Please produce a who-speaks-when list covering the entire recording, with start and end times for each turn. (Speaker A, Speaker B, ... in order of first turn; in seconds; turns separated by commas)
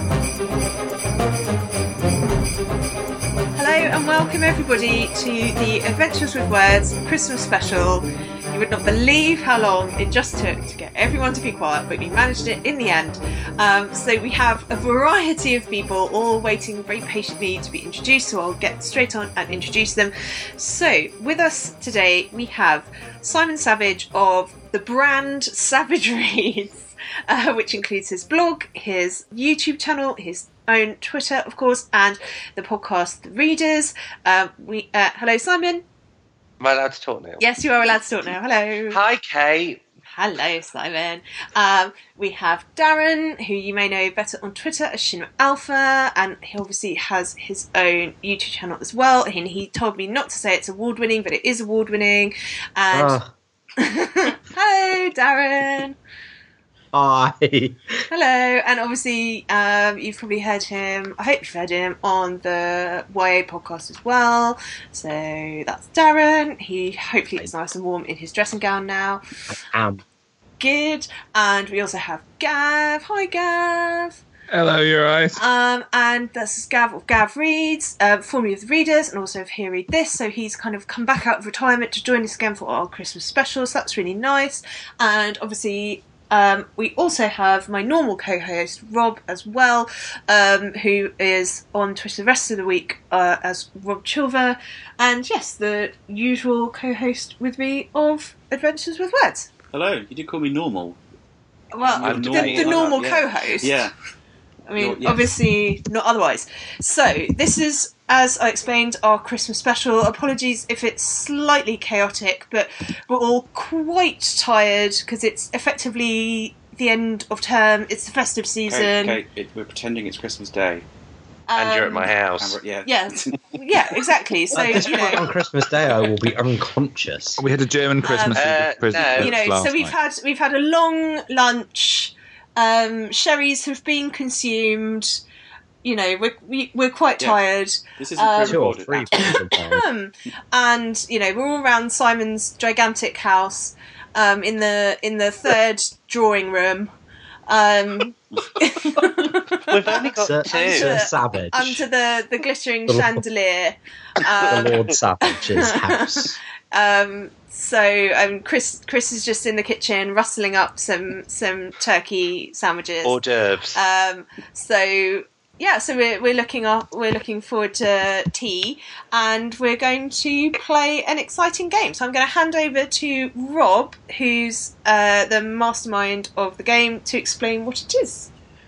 Speaker A: 3.5-35.8, Speaker B: 36.6-37.4, Speaker A: 37.4-39.0, Speaker B: 38.9-39.8, Speaker A: 40.1-53.2, Speaker C: 52.9-53.3, Speaker A: 53.8-56.0, Speaker C: 56.9-58.0, Speaker A: 58.1-69.2, Speaker C: 69.5-70.0, Speaker A: 70.6-74.2, Speaker D: 74.5-75.4, Speaker A: 75.3-99.5, Speaker E: 99.7-101.0, Speaker A: 101.7-103.9, Speaker E: 101.8-103.9, Speaker B: 102.0-103.2, Speaker A: 104.7-119.2, Speaker E: 104.8-105.3, Speaker E: 118.7-120.9, Speaker A: 121.5-122.2, Speaker B: 121.5-122.6, Speaker E: 122.4-123.3, Speaker A: 122.8-125.2, Speaker C: 124.5-127.4, Speaker E: 124.8-125.0, Speaker D: 127.4-130.0, Speaker A: 128.0-128.4, Speaker B: 128.3-129.3, Speaker A: 129.1-135.2, Speaker A: 135.8-146.9, Speaker E: 138.0-139.3, Speaker C: 138.4-139.8, Speaker A: 147.5-163.2, Speaker B: 149.7-150.9, Speaker C: 149.9-151.8, Speaker C: 152.9-153.2, Speaker C: 154.4-156.4, Speaker B: 154.5-154.9, Speaker B: 163.0-163.8, Speaker A: 163.7-178.3